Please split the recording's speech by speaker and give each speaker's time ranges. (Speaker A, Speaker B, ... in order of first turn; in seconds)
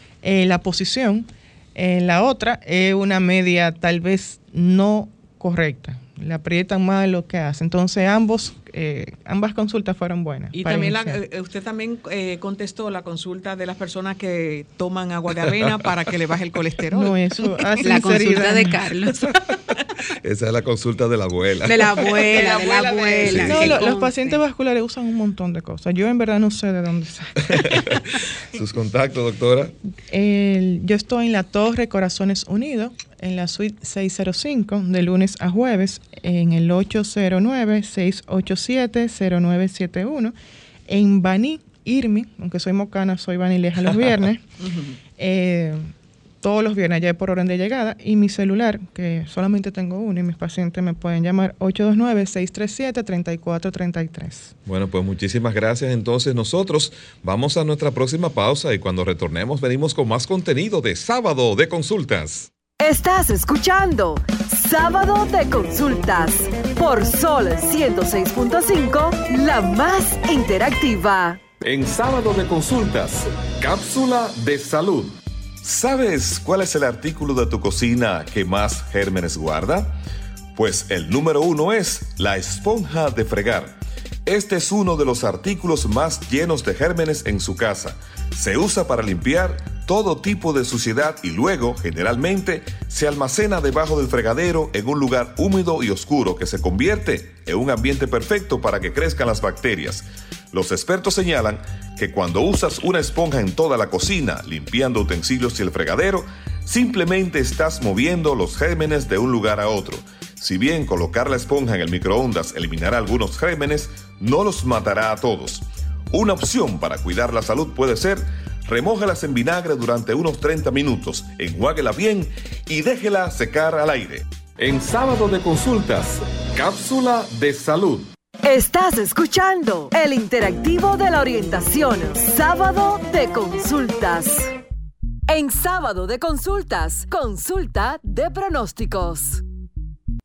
Speaker A: 0.2-11.2, 16.9-18.8, 23.4-28.0, 30.1-40.3, 40.9-44.4, 45.2-45.9, 46.4-54.5
Speaker B: 10.5-17.1, 22.1-23.9, 44.6-45.0
Speaker C: 17.8-19.3, 21.6-24.4
Speaker D: 20.2-22.1, 23.2-23.8, 27.5-29.8, 54.6-62.5, 71.6-79.9, 80.5-128.1
Speaker E: 62.8-71.4, 128.4-134.5, 135.3-139.4